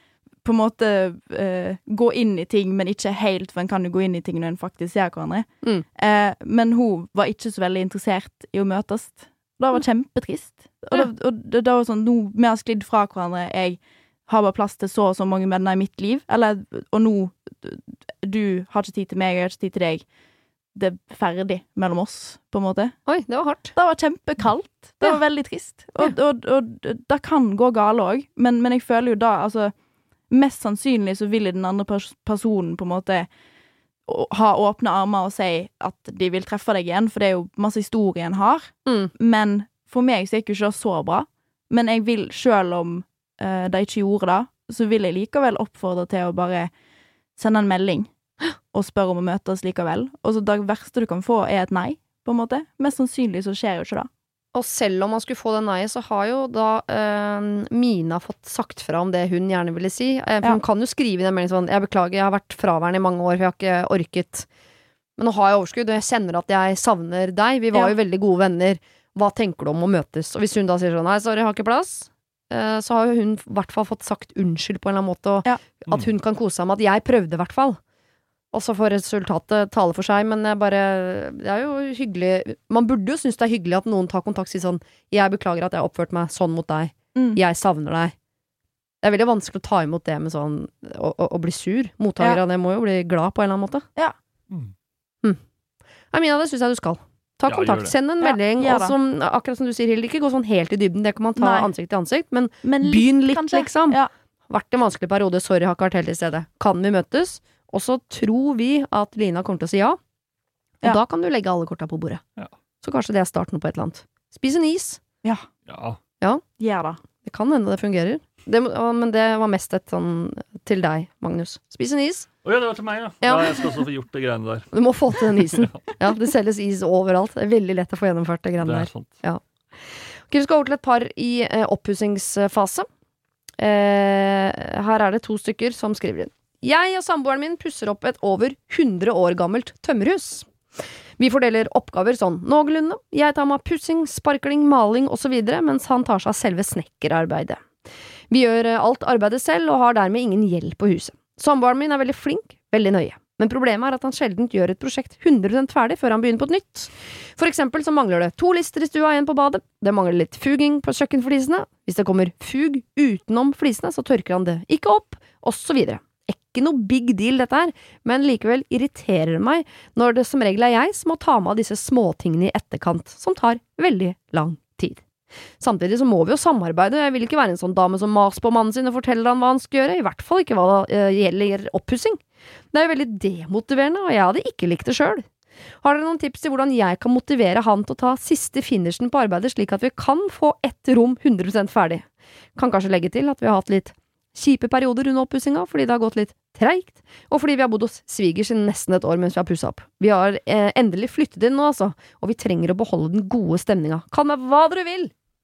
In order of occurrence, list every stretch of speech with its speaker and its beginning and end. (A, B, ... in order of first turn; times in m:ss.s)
0:00.4-0:20.0 A
0:20.8-0:23.0 A
0:23.1-0:23.7 B
0:23.8-0:29.7 A
0:30.3-0:33.3 A
0:34.1-0:46.7 A
0:38.9-0:39.1 B
0:47.4-0:48.1 A
0:48.7-0:54.1 A
0:54.5-1:04.5 B
1:05.2-1:17.8 B
1:18.5-1:28.1 B
1:29.0-1:33.8 B
1:36.1-1:50.0 B
1:37.5-1:37.9 C
1:38.2-1:39.0 A
1:41.4-1:41.7 A
1:42.6-1:44.1 A
1:50.8-1:52.2 B
1:52.8-1:55.0 B
1:55.7-1:56.0 C
1:56.6-1:57.0 A
1:57.2-2:02.3 B
2:02.4-2:05.9 C
2:03.2-2:03.8 B
2:04.7-2:12.9 B
2:08.6-2:09.1 C
2:13.6-2:20.5 B
2:21.2-2:27.6 B
2:28.3-2:55.0 B
2:55.6-3:02.2 B
3:02.7-3:05.3 B
3:05.8-3:12.0 B
3:12.6-3:25.1 B